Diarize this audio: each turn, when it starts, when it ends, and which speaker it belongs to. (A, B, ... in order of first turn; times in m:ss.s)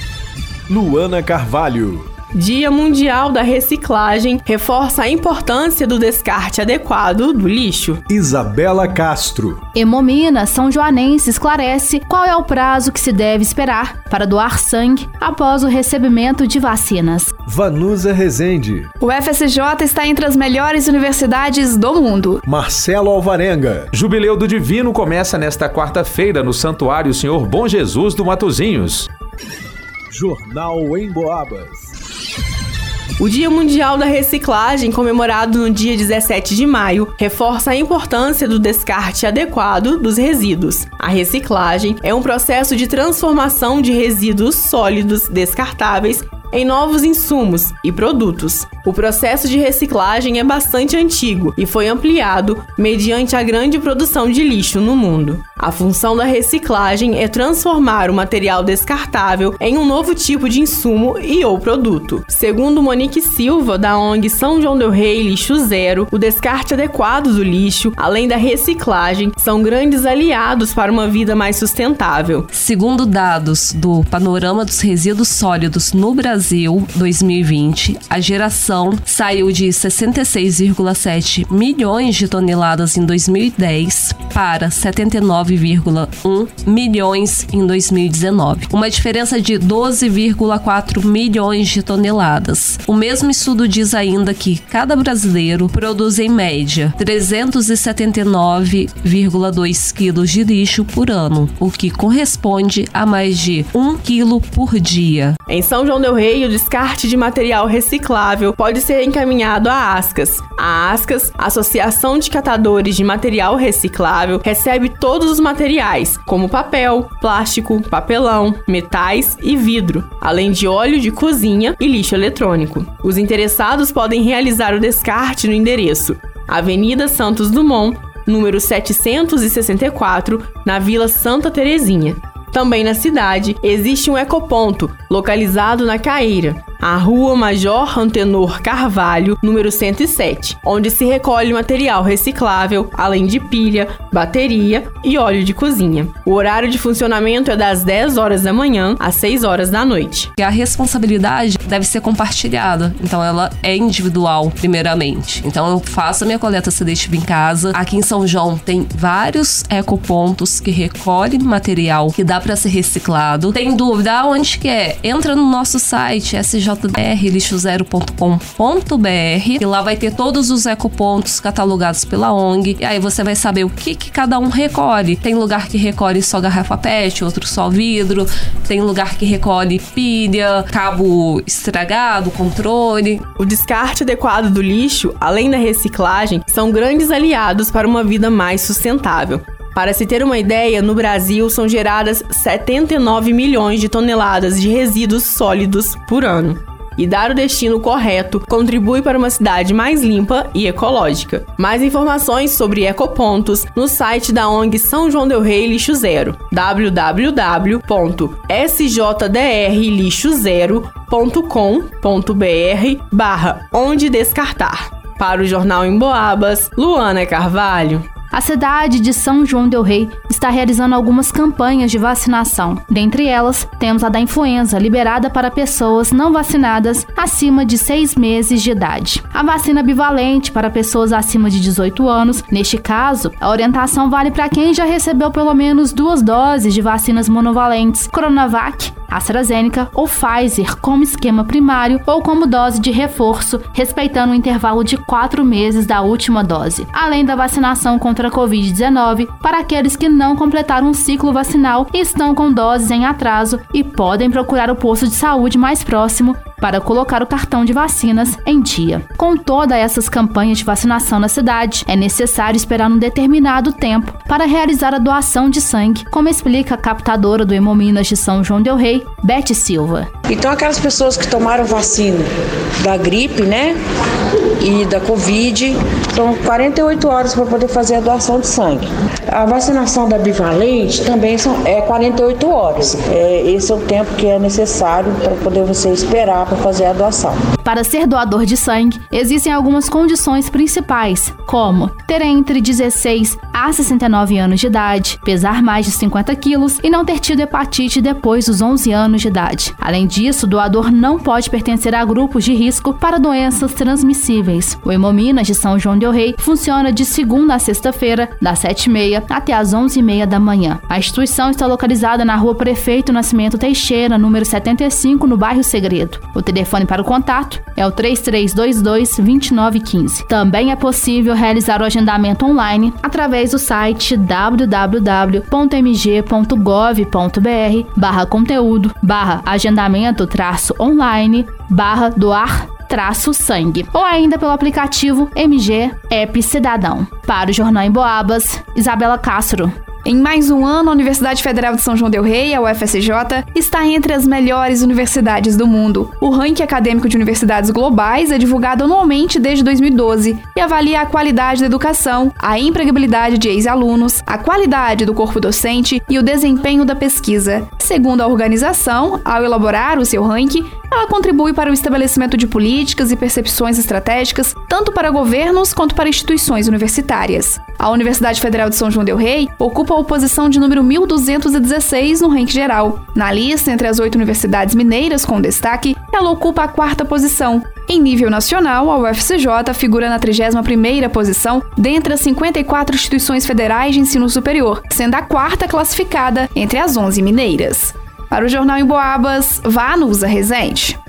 0:00.7-0:02.1 A
0:02.3-0:08.0 B
0:08.1-0:09.6 A
0:09.7-0:17.3 C
0:17.5-0:18.9 A
0:19.0-0:22.4 D
0:22.4-0:23.9 A
0:23.9-0:29.1 E
0:30.1-0:31.9 A
0:33.2-1:12.5 B
1:12.5-1:45.4 F
1:45.5-2:30.3 B
2:30.4-3:03.2 F
3:03.4-3:38.0 B
3:38.3-4:30.1 C
4:30.3-4:33.8 G
4:34.6-4:47.4 G
4:47.6-5:39.7 C
5:40.0-6:31.0 D